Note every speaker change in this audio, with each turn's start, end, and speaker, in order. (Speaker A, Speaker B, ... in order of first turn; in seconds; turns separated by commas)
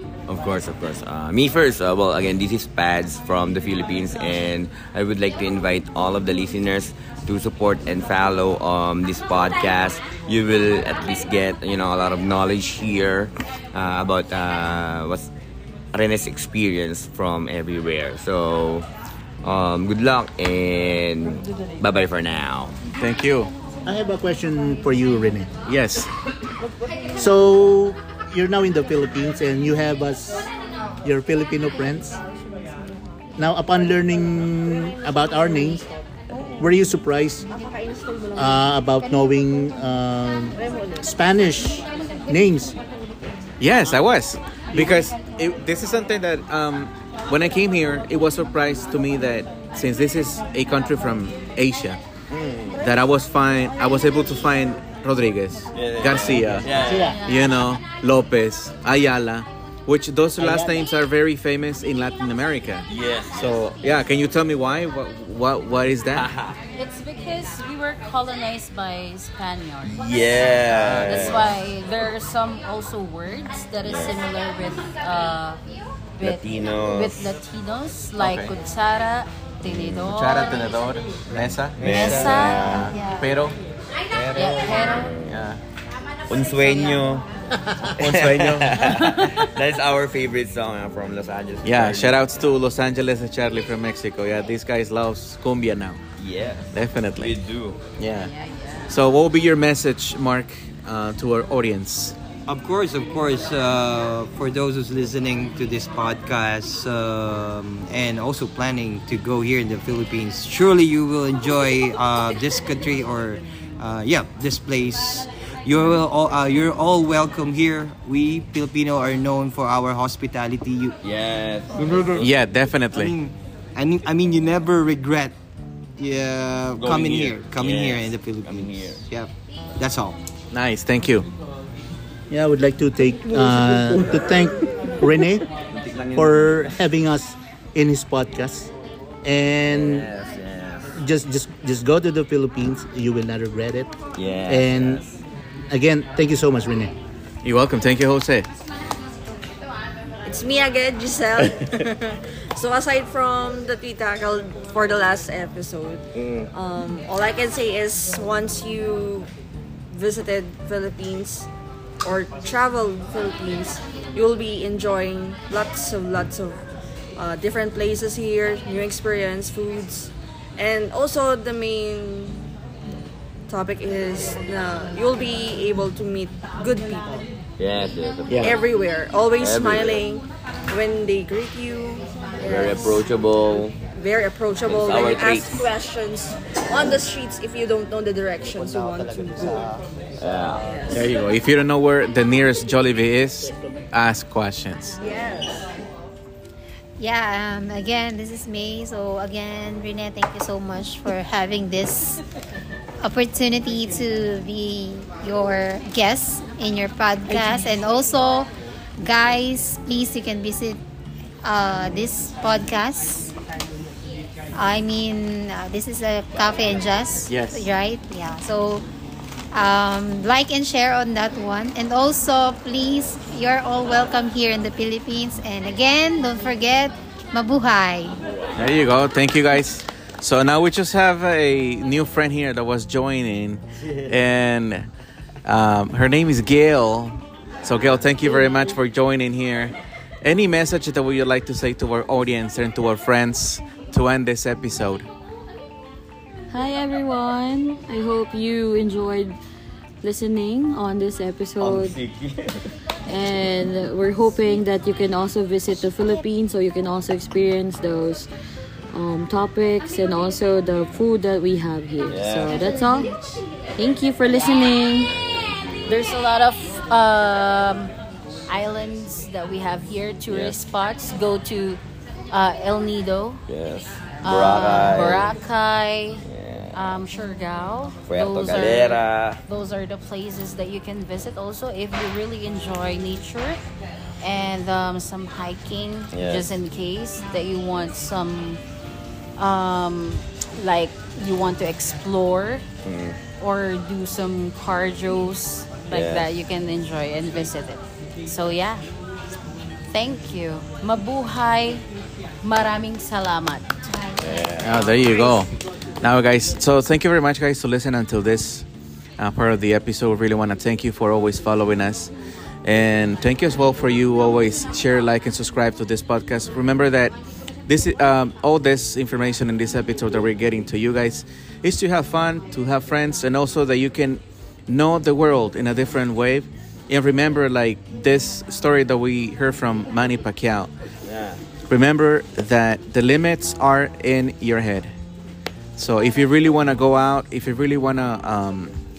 Speaker A: 0.3-15.3, Speaker A: 15.9-18.9, Speaker A: 19.4-22.8, Speaker B: 22.9-23.5, Speaker C: 23.9-25.5, Speaker B: 25.7-26.1, Speaker C: 27.1-30.5, Speaker C: 31.0-32.2, Speaker C: 33.4-35.9, Speaker C: 36.6-37.5, Speaker D: 37.5-38.4, Speaker C: 38.4-42.8, Speaker B: 43.6-52.0, Speaker C: 44.8-45.0, Speaker A: 52.3-52.9, Speaker B: 52.8-66.3, Speaker A: 55.7-57.2, Speaker C: 56.4-57.2, Speaker E: 57.0-57.6, Speaker A: 62.9-63.5, Speaker A: 66.2-66.6, Speaker E: 66.8-70.0, Speaker A: 69.8-71.5, Speaker B: 70.7-71.5, Speaker E: 71.1-75.6, Speaker A: 73.8-74.2, Speaker E: 76.2-80.6, Speaker A: 76.2-77.3, Speaker B: 78.2-78.5, Speaker A: 79.6-80.1, Speaker B: 79.9-83.6, Speaker F: 81.8-82.5, Speaker A: 81.8-82.9, Speaker E: 81.8-82.9, Speaker G: 82.7-83.3, Speaker F: 84.1-84.6, Speaker A: 84.2-85.4, Speaker E: 84.3-85.1, Speaker B: 85.3-85.6, Speaker A: 86.3-87.2, Speaker A: 87.9-92.3, Speaker B: 88.0-89.4, Speaker B: 91.6-96.0, Speaker A: 96.2-97.8, Speaker B: 96.7-97.4, Speaker B: 98.0-98.3, Speaker E: 98.5-98.9, Speaker B: 98.9-102.2, Speaker F: 102.5-121.0, Speaker A: 121.0-122.3, Speaker B: 122.2-123.2, Speaker F: 122.9-125.4, Speaker F: 126.0-130.2, Speaker A: 126.8-129.0, Speaker B: 130.5-131.3, Speaker C: 132.3-135.5, Speaker A: 133.9-134.3, Speaker A: 135.7-136.8, Speaker C: 136.2-138.7, Speaker C: 139.2-140.1, Speaker A: 139.7-140.9, Speaker C: 141.0-143.9, Speaker A: 144.2-145.2, Speaker C: 144.5-145.0, Speaker C: 145.7-146.9, Speaker B: 147.4-148.5, Speaker D: 150.2-159.3, Speaker A: 156.1-156.5, Speaker D: 159.9-161.5, Speaker D: 162.0-166.6, Speaker D: 167.2-172.5, Speaker D: 173.5-177.3, Speaker A: 177.6-178.6, Speaker B: 178.3-178.6, Speaker D: 178.4-183.0, Speaker A: 179.4-180.1, Speaker A: 182.4-183.8, Speaker D: 183.9-189.6, Speaker A: 184.7-185.7, Speaker F: 188.5-189.8, Speaker A: 190.2-190.6, Speaker D: 190.6-191.0, Speaker B: 190.9-195.0, Speaker D: 195.0-195.8, Speaker G: 197.0-202.2, Speaker G: 203.0-210.8, Speaker G: 211.4-213.3, Speaker G: 214.5-218.9, Speaker B: 217.3-217.7, Speaker G: 219.5-228.2, Speaker A: 228.3-228.7, Speaker B: 228.6-234.9, Speaker B: 235.4-245.1, Speaker H: 246.5-249.4, Speaker H: 250.0-252.0, Speaker A: 251.6-252.7, Speaker H: 253.1-258.3, Speaker H: 258.9-263.1, Speaker A: 262.1-262.7, Speaker E: 262.5-263.1, Speaker H: 263.8-265.2, Speaker A: 265.1-266.0, Speaker E: 265.9-267.9, Speaker E: 268.5-271.8, Speaker A: 270.3-270.6, Speaker E: 272.3-273.4, Speaker A: 273.5-275.4, Speaker E: 274.2-283.6, Speaker A: 276.2-276.8, Speaker A: 278.1-279.4, Speaker E: 284.2-288.6, Speaker A: 286.1-286.6, Speaker E: 289.4-292.6, Speaker A: 292.8-293.2, Speaker E: 293.4-298.9, Speaker A: 295.9-296.3, Speaker E: 299.9-301.9, Speaker E: 302.4-303.8, Speaker G: 303.8-305.4, Speaker A: 304.2-304.9, Speaker B: 304.6-308.7, Speaker B: 309.2-312.1, Speaker B: 312.6-317.1, Speaker B: 317.7-330.7, Speaker A: 331.1-331.4, Speaker B: 331.7-334.9, Speaker B: 335.8-338.8